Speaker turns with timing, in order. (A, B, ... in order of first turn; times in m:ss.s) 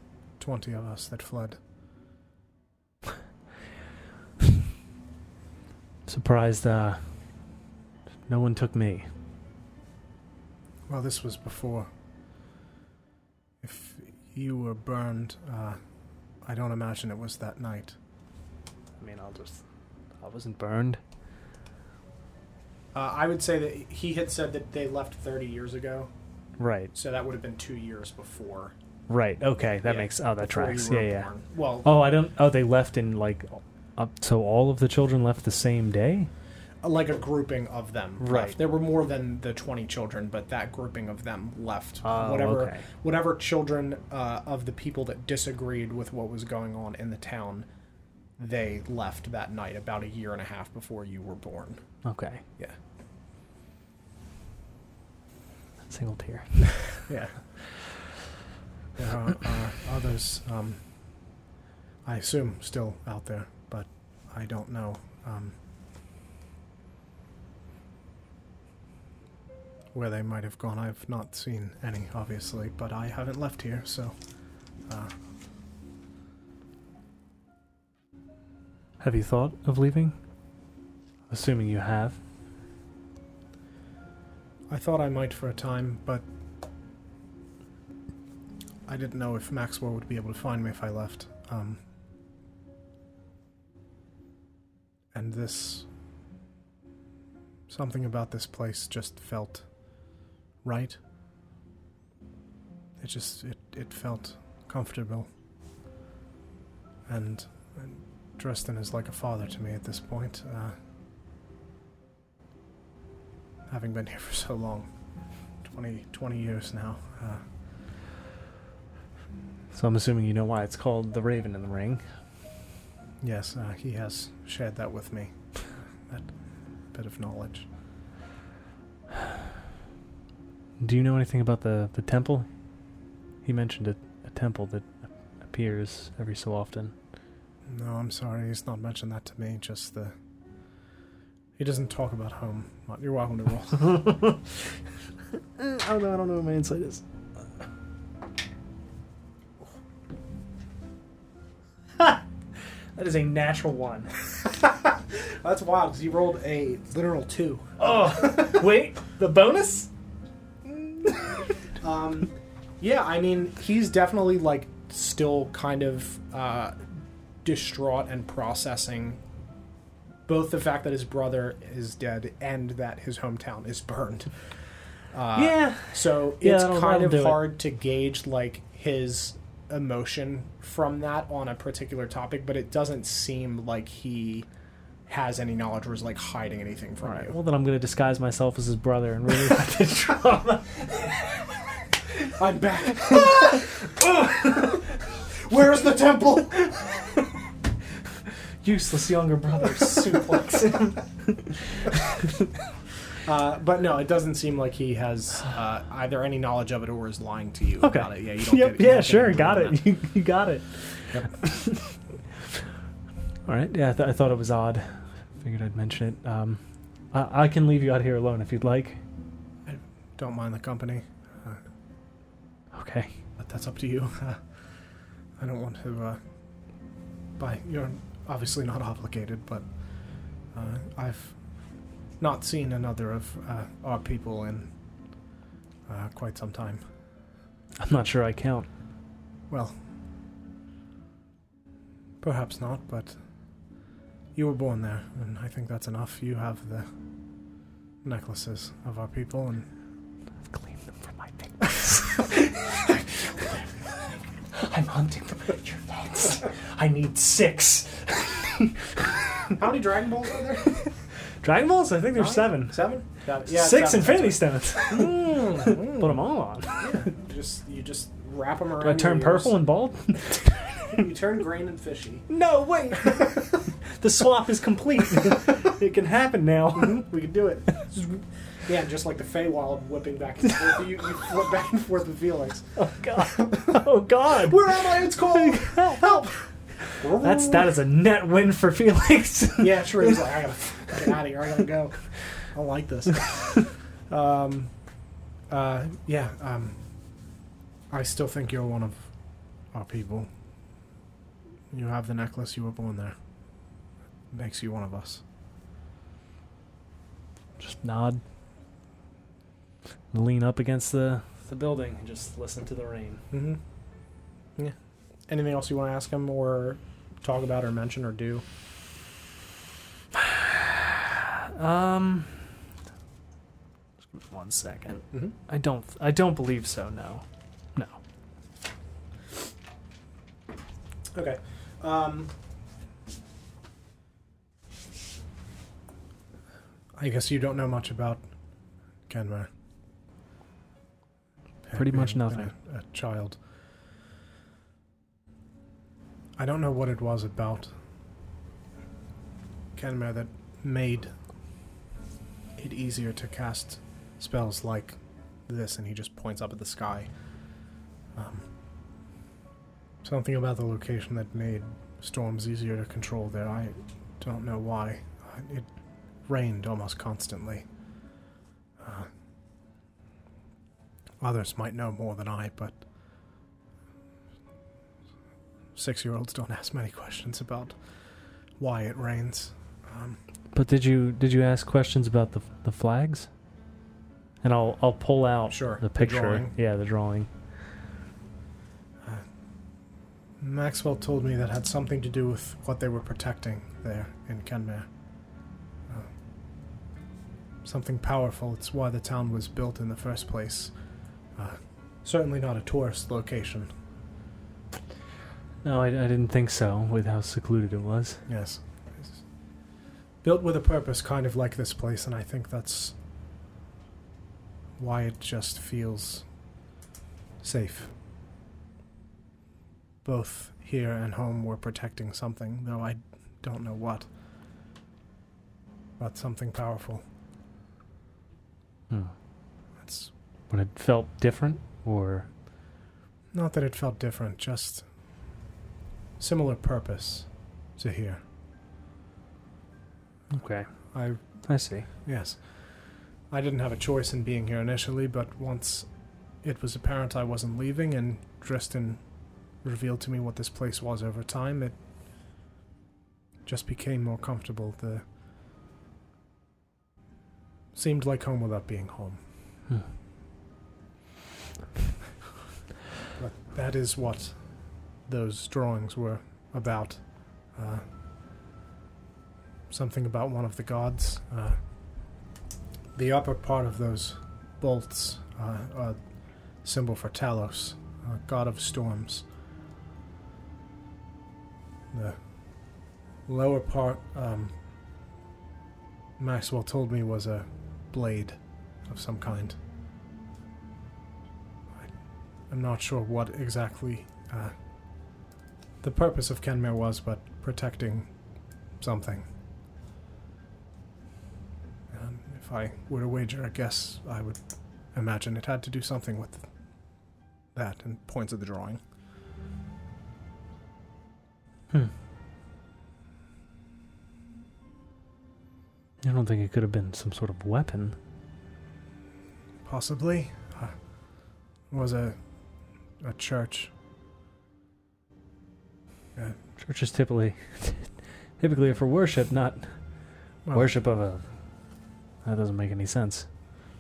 0:00.4-0:01.6 A
0:06.1-0:07.0 B
0:08.3-0:09.1 B
0:10.9-0:11.9 A
0:13.6-0:15.8 A
0:16.4-0:18.0 A
0:19.0-0:19.6 B
0:20.2-0:21.0 B
0:22.9-0:26.1 A
0:26.6-0:26.9 B
0:26.9-0:28.8 A
0:29.1-0:31.3 B
0:29.8-0:32.0 A
0:31.8-0:36.3 B
0:36.8-0:47.7 A
0:38.2-0:38.6 B
0:42.0-0:42.8 B
0:48.4-0:51.8 A
0:52.0-0:52.4 B
0:55.9-0:56.8 B
0:57.1-0:57.4 A
0:59.0-1:00.8 A
1:02.0-1:05.6 A
1:09.9-1:14.2 A
1:14.9-1:15.1 A
1:19.0-1:20.2 B
1:21.3-1:22.2 B
1:24.7-1:26.2 A
1:28.9-1:31.8 A
1:35.1-1:35.9 A
1:37.7-1:39.6 A
1:40.6-1:41.0 A
1:43.0-1:45.3 A
1:47.1-1:50.8 A
1:53.7-1:54.9 A
1:55.6-1:57.4 A
1:59.7-2:02.0 B
2:03.2-2:05.3 A
2:06.9-2:07.7 A
2:10.8-2:12.5 B
2:13.4-2:16.9 B
2:17.7-2:20.2 A
2:21.6-2:24.1 A
2:24.0-2:24.4 B
2:25.6-2:27.0 B
2:33.0-2:34.1 B
2:34.8-2:38.0 A
2:37.8-2:39.9 B
2:41.8-2:46.8 A
2:47.4-2:49.2 A
2:50.3-2:54.3 A
2:55.1-3:04.5 A
2:55.4-2:57.5 B
3:05.1-3:07.4 A
3:07.0-3:10.9 B
3:12.4-3:14.8 A
3:13.2-3:13.4 B
3:15.4-3:16.9 A
3:18.6-3:21.6 B
3:23.2-3:29.8 A
3:27.8-3:31.9 B
3:33.5-3:39.0 B
3:39.6-3:41.6 A
3:42.7-3:43.1 B
3:43.4-3:44.4 A
3:45.4-3:46.2 A
3:47.4-3:49.7 A
3:50.5-3:51.4 A
3:52.2-3:54.7 A
3:55.9-3:56.8 A
3:57.8-3:58.7 B
3:59.5-3:59.8 A
4:02.2-4:03.2 A
4:04.4-4:06.9 A
4:08.0-4:09.7 A
4:10.5-4:13.6 B
4:14.5-4:19.0 B
4:19.6-4:20.8 A
4:21.4-4:22.9 B
4:22.1-4:26.1 A
4:23.5-4:27.0 B
4:26.8-4:29.6 A
4:28.8-4:31.0 B
4:30.9-4:32.3 A
4:32.3-4:37.1 B
4:36.8-4:38.0 A
4:38.7-4:42.7 A
4:42.8-4:46.2 B
4:44.4-4:46.4 A
4:47.0-4:47.8 A
4:47.0-4:50.3 B
4:49.6-4:54.7 A
4:55.5-4:56.8 A
4:57.9-4:59.1 A
4:59.7-5:00.3 A
5:01.7-5:03.2 A
5:04.3-5:05.2 A
5:07.6-5:08.2 B
5:10.1-5:13.2 B
5:13.3-5:13.6 A
5:15.3-5:18.4 A
5:20.2-5:22.5 B
5:24.1-5:28.0 B
5:31.1-5:32.3 A
5:37.0-5:38.2 A
5:39.1-5:39.5 A
5:41.7-5:43.4 A
5:41.7-5:42.5 B
5:46.4-5:47.7 A
5:49.8-5:51.1 A
5:52.6-5:57.1 A
5:58.2-5:58.5 A
6:00.0-6:05.7 A
6:06.3-6:07.6 A
6:08.8-6:09.1 A
6:11.2-6:12.8 A
6:15.8-6:17.8 A
6:18.6-6:20.2 A
6:20.5-6:23.3 B
6:24.4-6:27.3 B
6:25.5-6:26.5 A
6:30.4-6:34.9 A
6:37.6-6:40.7 A
6:41.4-6:43.7 A
6:45.6-6:48.2 B
6:48.3-6:49.2 A
6:50.2-6:53.0 A
6:54.8-6:56.2 A
6:57.4-6:57.9 A
7:00.0-7:04.1 A
7:06.0-7:07.0 A
7:09.8-7:10.1 A
7:10.5-7:12.3 B
7:13.3-7:14.8 A
7:16.2-7:18.2 A
7:20.3-7:20.7 B
7:20.9-7:21.2 A
7:21.4-7:21.9 B
7:22.0-7:22.4 A
7:23.3-7:25.9 A
7:26.4-7:29.0 A
7:29.6-7:31.8 A
7:33.4-7:35.0 A
7:37.7-7:39.2 A
7:43.2-7:44.4 A
7:45.1-7:47.8 A
7:49.7-7:51.6 A
7:53.0-7:56.0 A
7:56.6-7:59.2 A
8:03.3-8:04.5 A
8:06.2-8:09.6 A
8:12.5-8:14.5 A
8:15.8-8:18.1 A
8:18.8-8:19.3 A
8:21.9-8:24.4 A
8:24.9-8:26.5 A
8:27.6-8:28.8 A
8:36.0-8:38.0 B
8:39.6-8:40.8 A
8:41.7-8:42.2 A
8:43.0-8:43.7 A
8:46.6-8:49.7 B
8:50.5-8:51.2 B
8:52.2-8:53.3 B